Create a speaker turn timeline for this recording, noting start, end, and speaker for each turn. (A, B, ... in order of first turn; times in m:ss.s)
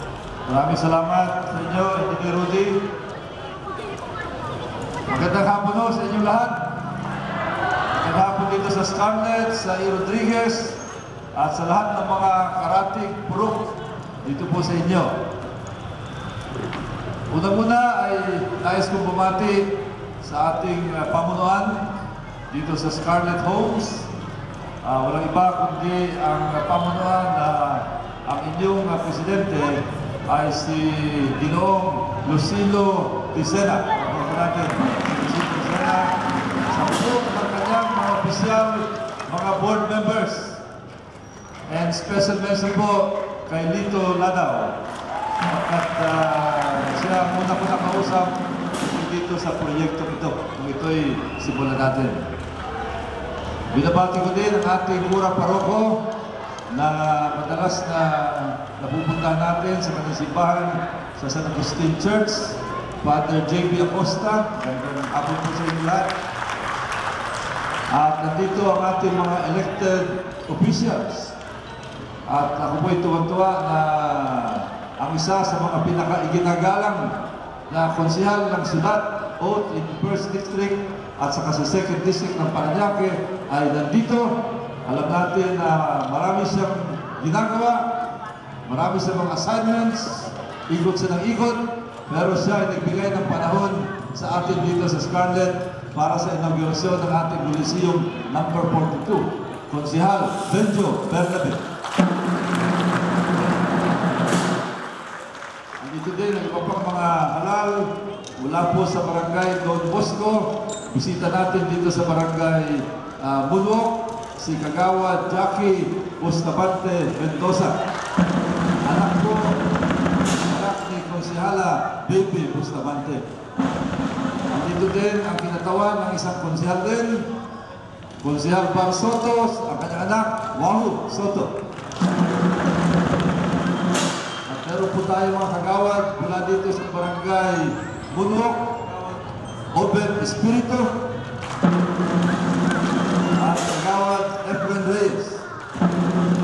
0:00.5-0:02.8 A
0:05.1-0:06.6 A
0:08.0-0:10.8 A
0:11.4-0:13.7 A
0:14.2-0:15.2 A
0:17.3-0:21.8 A
0:22.5-0:24.1 A
0:24.8-0:36.1 A
0:36.7-0:40.6 A
0:41.7-0:44.8 A
0:45.4-0:52.2 A
0:53.7-0:56.0 A
0:56.7-1:06.1 A
1:07.9-1:11.4 A
1:12.3-1:17.1 A
1:17.7-1:27.8 A
1:28.6-1:41.6 A
1:45.8-1:57.8 A
1:58.8-1:59.6 A
2:00.4-2:03.2 A
2:04.5-2:07.3 A
2:08.2-2:11.5 A
2:14.5-2:20.9 A
2:23.4-2:25.4 A